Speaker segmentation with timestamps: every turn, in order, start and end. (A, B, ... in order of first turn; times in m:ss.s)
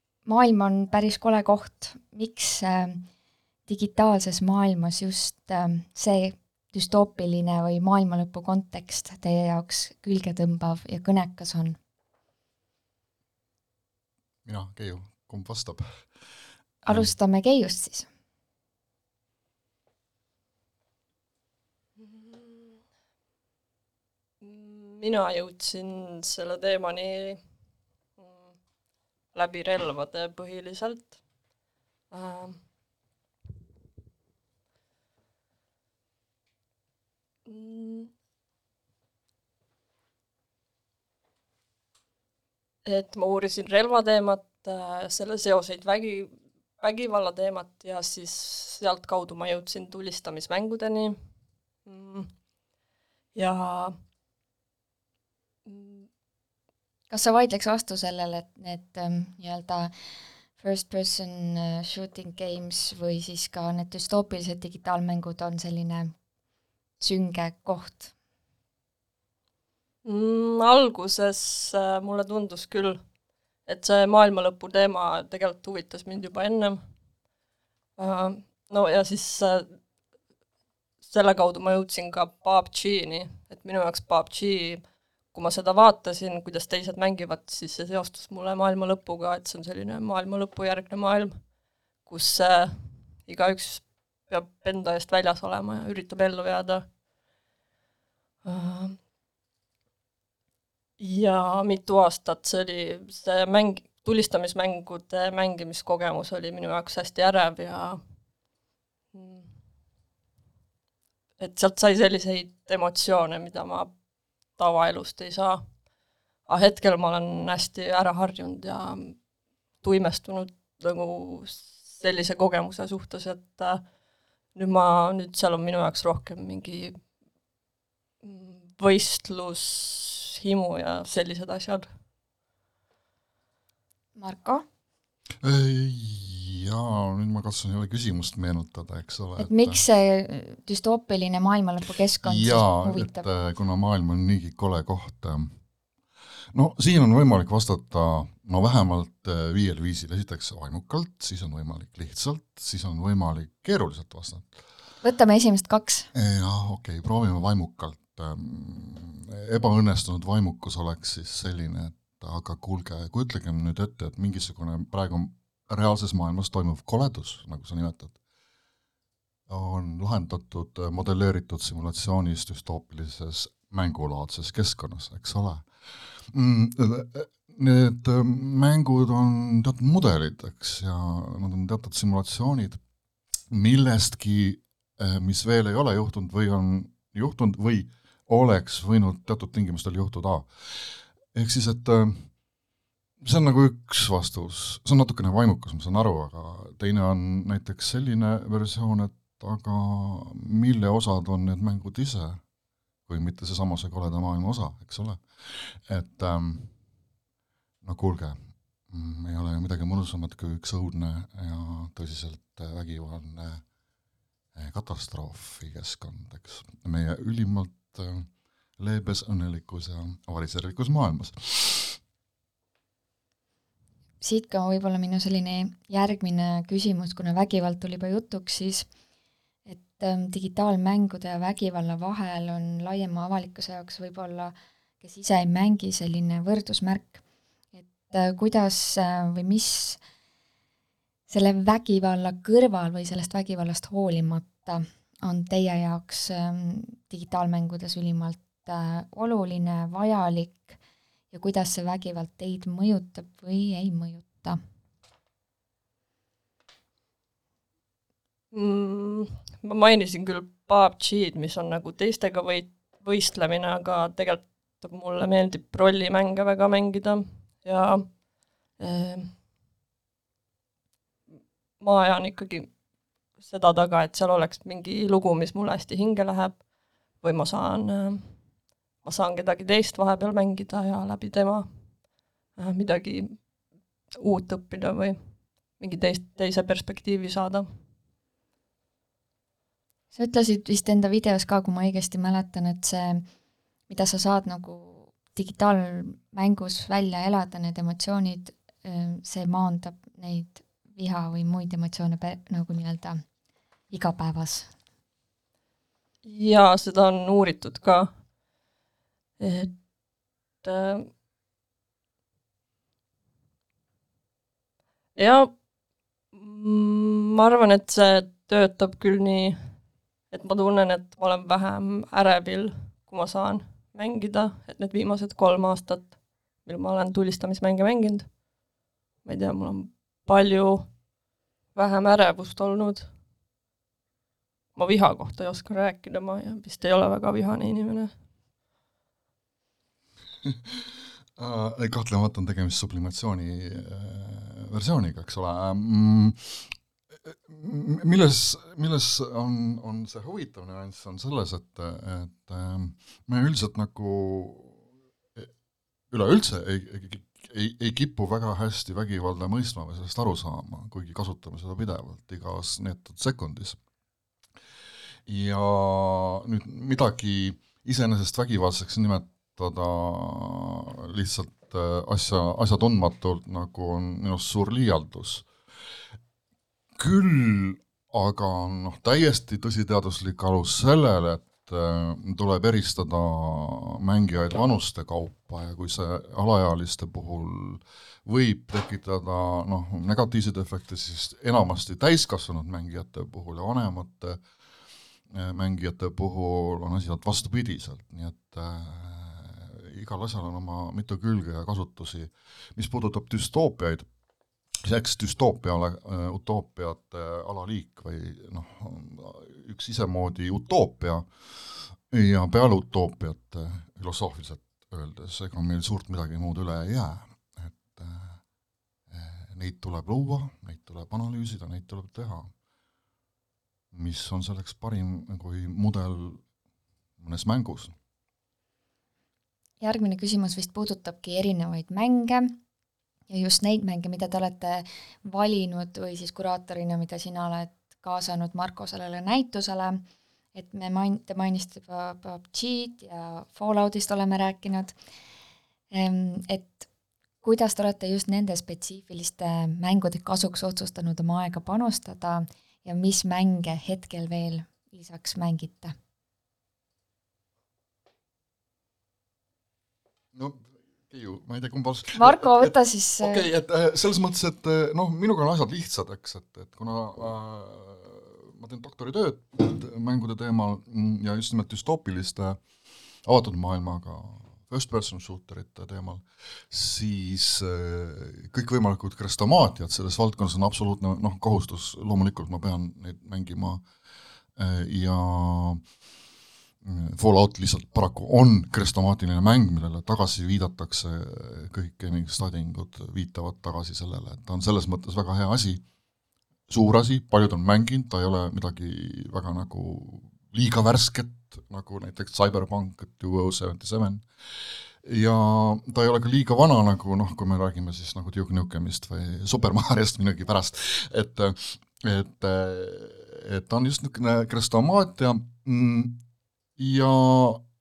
0:00.2-0:03.0 A
0:03.7-0:11.8 A
0:14.4-0:16.1 B
0:16.8-0:18.1 A
0:22.0-0:22.8 C
0:24.4-0:27.4 C
0:28.2-0:28.6 C
0:29.3-0:31.2 C
0:32.1-0:32.7 C
0:37.4-0:38.1 C
0:42.8-0:51.3 C
0:51.8-0:52.4 C
0:53.3-0:53.9 C
0:55.7-0:56.1 C
0:57.1-0:59.9 A
1:00.6-1:06.1 A
1:07.0-1:08.1 A
1:10.0-1:13.0 C
1:13.7-1:16.8 C
1:18.0-1:19.8 C
1:21.0-1:36.9 C
1:38.4-1:39.0 C
1:41.0-1:48.0 C
1:49.1-1:49.6 C
1:51.4-1:55.8 C
1:56.5-1:59.3 C
1:59.8-2:03.8 C
2:04.5-2:07.0 C
2:08.2-2:11.9 C
2:14.2-2:14.7 A
2:15.4-2:19.8 B
2:19.4-2:23.2 A
2:22.2-2:25.6 B
2:26.5-2:34.6 B
2:35.0-2:36.1 A
2:36.1-2:48.2 B
2:49.5-3:02.8 B
3:03.5-3:12.4 B
3:13.2-3:22.4 B
3:23.1-3:26.8 B
3:27.8-3:33.6 B
3:34.6-3:42.0 B
3:44.2-3:48.9 A
3:49.7-3:57.2 A
3:57.8-4:00.0 A
4:01.3-4:10.8 A
4:11.3-4:14.6 A
4:18.5-4:28.2 C
4:28.8-4:29.4 C
4:31.8-4:32.8 C
4:33.4-4:42.0 C
4:42.6-4:43.5 C
4:44.2-4:47.7 C
4:50.1-4:53.3 A
4:53.9-5:03.2 A
5:03.9-5:04.7 A
5:06.2-5:08.1 C
5:09.4-5:09.8 C
5:10.6-5:11.1 C
5:15.2-5:15.6 C
5:16.3-5:19.6 C
5:20.3-5:28.4 C
5:29.2-5:31.0 C
5:31.7-5:33.1 C
5:34.8-5:38.1 C
5:41.4-5:46.7 B
5:47.2-5:54.8 B
5:56.1-6:03.8 B
6:05.3-6:15.5 B
6:17.0-6:34.4 B
6:35.3-6:44.1 B
6:44.8-6:58.4 B
6:59.1-7:02.5 B
7:03.9-7:06.4 B
7:07.2-7:08.0 B
7:09.8-7:12.6 A
7:13.3-7:20.0 A
7:20.5-7:25.0 A
7:25.9-7:26.9 A
7:27.4-7:36.0 A
7:40.3-7:52.6 B
7:42.2-7:43.5 A
7:53.2-8:03.8 B
8:04.6-8:05.8 B
8:06.8-8:15.8 B
8:16.7-8:24.2 B
8:25.0-8:36.2 B
8:36.8-8:37.6 B